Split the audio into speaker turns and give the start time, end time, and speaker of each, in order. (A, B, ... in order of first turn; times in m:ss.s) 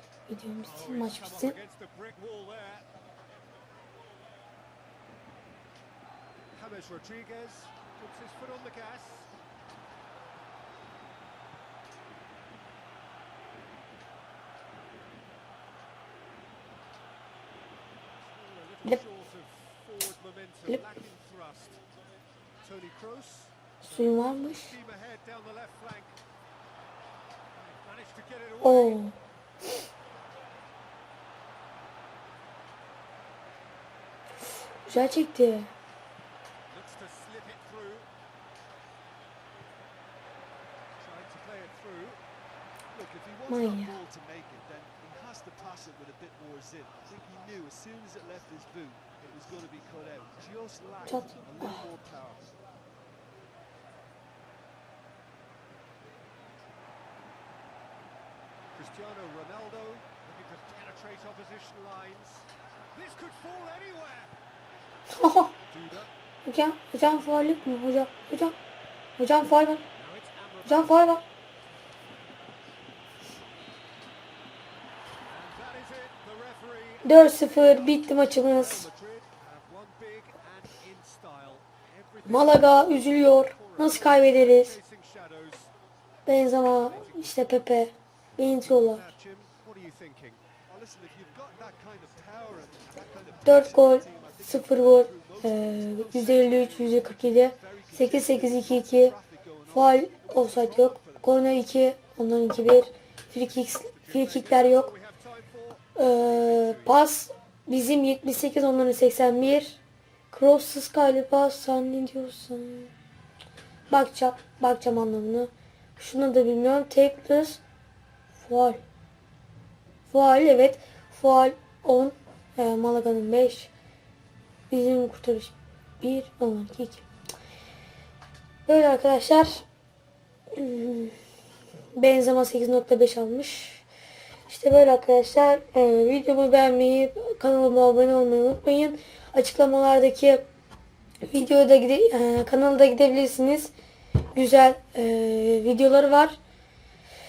0:00.3-0:01.6 A
0:00.6-0:02.9 B
0:06.5-0:09.3 B
0:18.3-0:21.8 B
0:22.6-0:26.2 B
0:23.8-0:24.7 A
0:27.6-0:29.0 B
0:28.6-0:29.2 A
0:34.8-0:35.7 A
0:36.7-0:38.1 B
0:41.0-0:42.2 B
0:42.9-0:52.5 C
0:43.5-0:44.0 A
0:51.0-0:51.8 A
0:58.8-1:04.3 B
1:05.1-1:05.5 A
1:05.7-1:06.1 B
1:06.4-1:08.6 A
1:09.2-1:09.8 A
1:10.0-1:11.1 B
1:10.6-1:11.2 A
1:15.3-1:17.9 B
1:17.0-1:18.9 A
1:18.6-1:25.7 B
1:22.2-1:24.8 A
1:26.2-1:29.1 A
1:28.6-1:30.4 B
1:30.7-1:36.2 C
1:33.4-1:39.1 A
1:37.3-1:41.3 C
1:39.7-1:44.9 A
1:44.0-1:46.9 B
1:46.0-1:52.9 A
1:53.9-1:57.6 A
1:58.4-1:58.8 A
2:00.1-2:03.7 A
2:04.7-2:07.0 A
2:08.6-2:09.6 A
2:10.5-2:11.2 A
2:11.9-2:13.8 A
2:14.5-2:20.4 A
2:21.3-2:23.7 A
2:24.3-2:26.4 A